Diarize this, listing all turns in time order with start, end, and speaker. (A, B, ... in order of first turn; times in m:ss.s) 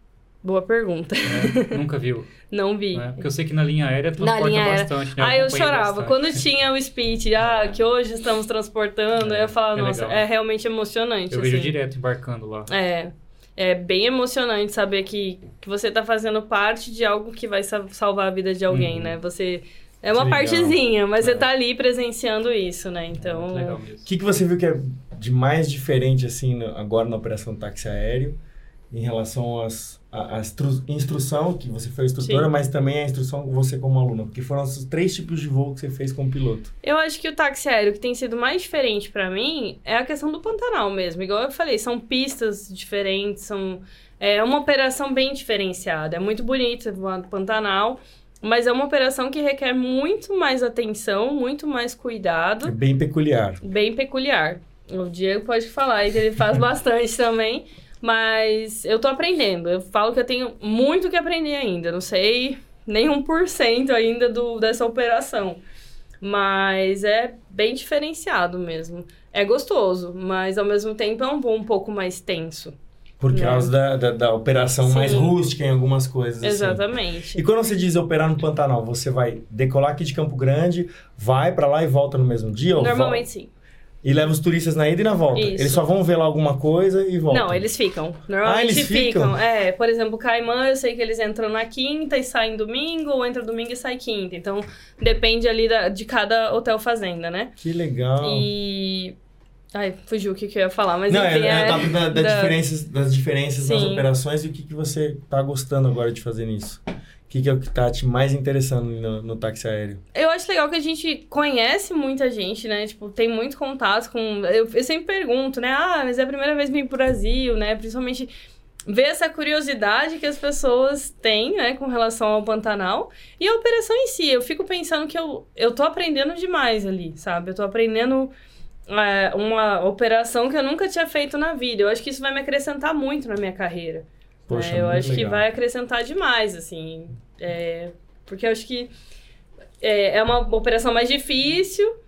0:00.4-0:01.8 A
0:01.2-0:06.4 B
0:02.5-0:03.2 A
0:04.2-0:11.7 A
0:09.2-0:10.2 B
0:11.3-0:12.7 B
0:12.7-0:23.8 A
0:18.7-0:19.2 B
0:20.1-0:20.8 C
0:23.2-0:24.1 B
0:24.0-0:28.4 C
0:28.9-0:36.7 C
0:32.2-0:32.5 A
0:36.8-0:52.7 A
0:52.6-0:53.6 C
0:53.6-1:05.6 A
1:06.2-1:12.7 A
1:13.2-1:16.8 C
1:13.3-1:13.7 A
1:14.8-1:15.3 A
1:16.4-1:17.4 A
1:17.3-1:23.2 C
1:22.8-1:23.5 A
1:24.0-1:27.6 C
1:25.3-1:25.8 A
1:27.3-1:37.5 A
1:28.4-1:29.4 C
1:37.6-1:38.5 C
1:38.2-1:39.1 A
1:39.7-1:42.6 A
1:41.1-1:50.0 C
1:43.6-1:44.0 A
1:50.1-1:58.3 A
1:58.8-2:08.3 A
2:08.9-2:18.9 A
2:14.5-2:15.4 C
2:19.8-2:21.9 A